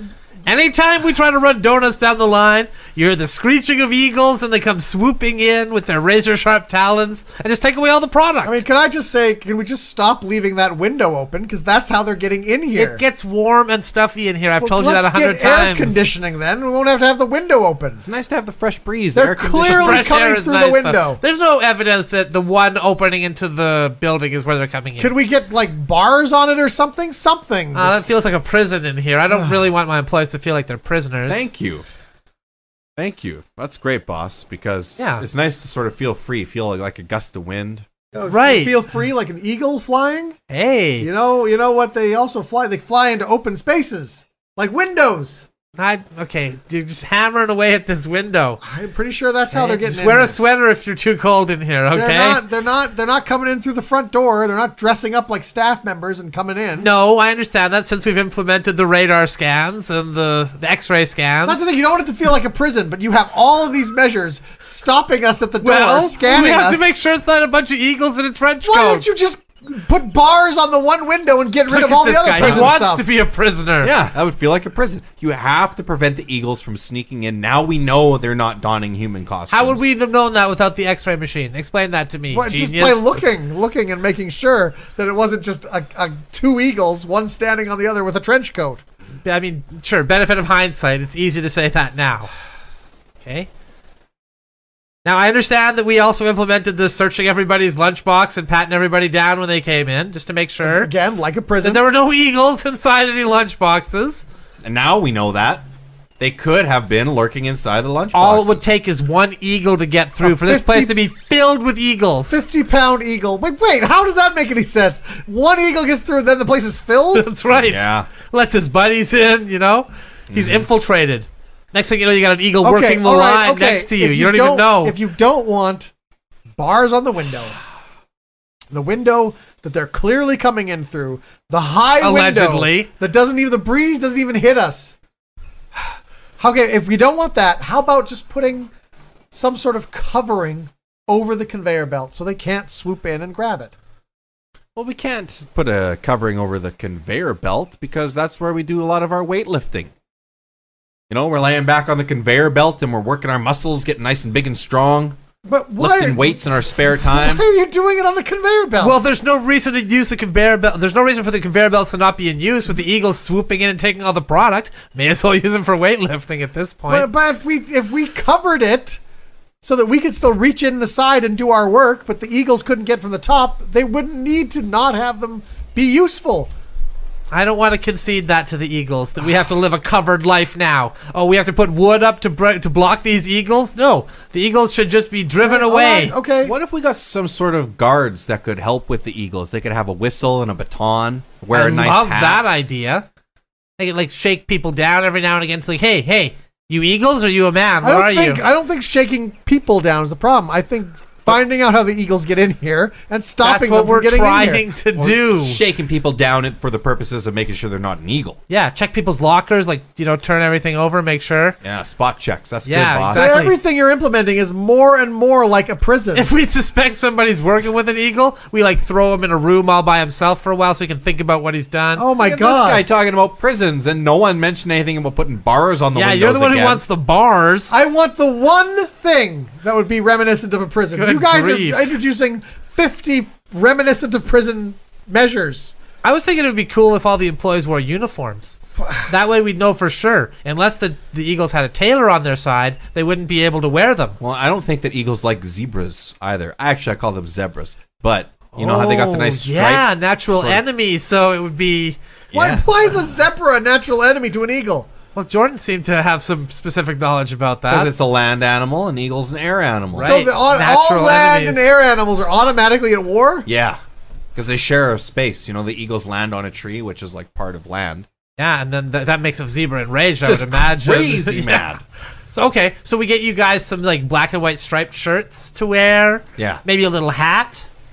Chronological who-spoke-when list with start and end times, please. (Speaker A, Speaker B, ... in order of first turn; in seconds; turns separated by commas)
Speaker A: 0.5-8.6, Speaker B: 8.4-13.0, Speaker A: 12.8-16.0, Speaker B: 14.6-18.1, Speaker C: 18.0-20.1, Speaker B: 19.1-21.2, Speaker A: 19.6-25.1, Speaker B: 25.0-28.1, Speaker A: 27.7-31.5, Speaker B: 29.3-29.6, Speaker C: 31.3-31.9, Speaker C: 33.0-37.9, Speaker A: 35.0-35.2, Speaker B: 38.1-40.4, Speaker A: 38.3-38.8, Speaker A: 40.5-41.1, Speaker B: 41.0-45.5, Speaker A: 45.8-48.6, Speaker B: 48.6-50.4, Speaker A: 49.5-52.4, Speaker B: 51.9-56.9, Speaker A: 56.8-61.6, Speaker B: 61.5-66.9, Speaker A: 65.6-69.0, Speaker B: 68.6-73.0, Speaker A: 71.7-73.9, Speaker C: 72.4-72.7, Speaker C: 73.8-79.8, Speaker A: 79.5-83.1, Speaker B: 82.3-88.8, Speaker A: 89.2-92.3, Speaker A: 93.2-93.5, Speaker A: 95.0-100.9, Speaker B: 100.6-101.8, Speaker A: 101.6-104.2, Speaker C: 104.6-105.6, Speaker C: 106.2-108.6, Speaker A: 108.1-112.4, Speaker B: 110.2-110.9, Speaker B: 112.3-117.3, Speaker A: 117.1-125.0, Speaker C: 117.5-118.1, Speaker C: 120.3-120.7, Speaker B: 122.6-125.9, Speaker B: 126.6-127.6, Speaker B: 128.7-135.0, Speaker A: 132.0-132.9, Speaker B: 136.4-138.7, Speaker B: 139.3-143.8, Speaker C: 144.8-149.9, Speaker C: 151.1-155.2, Speaker B: 155.4-159.0, Speaker C: 155.8-157.4, Speaker A: 158.8-167.1, Speaker B: 166.9-169.0, Speaker B: 169.6-176.5, Speaker A: 177.3-186.1, Speaker B: 185.4-186.5, Speaker C: 186.4-192.5, Speaker A: 191.5-193.1, Speaker A: 193.8-198.4, Speaker B: 197.8-204.7, Speaker A: 203.4-205.6, Speaker C: 205.0-208.4, Speaker A: 208.5-211.6, Speaker C: 211.6-213.4, Speaker A: 212.7-213.6, Speaker B: 213.1-216.3, Speaker A: 216.1-222.1, Speaker B: 222.0-222.8, Speaker C: 222.2-226.8, Speaker A: 225.9-227.7, Speaker B: 227.7-235.7, Speaker A: 230.9-231.9, Speaker A: 236.0-244.2, Speaker C: 244.2-250.6, Speaker A: 248.6-252.0, Speaker C: 252.3-252.7, Speaker B: 252.3-254.9, Speaker A: 255.1-257.9, Speaker C: 257.7-260.2, Speaker A: 259.9-261.6, Speaker B: 260.0-263.5, Speaker C: 263.5-263.8, Speaker C: 264.4-268.1, Speaker A: 268.4-271.8, Speaker C: 270.2-271.8, Speaker A: 272.3-277.7, Speaker C: 276.4-276.6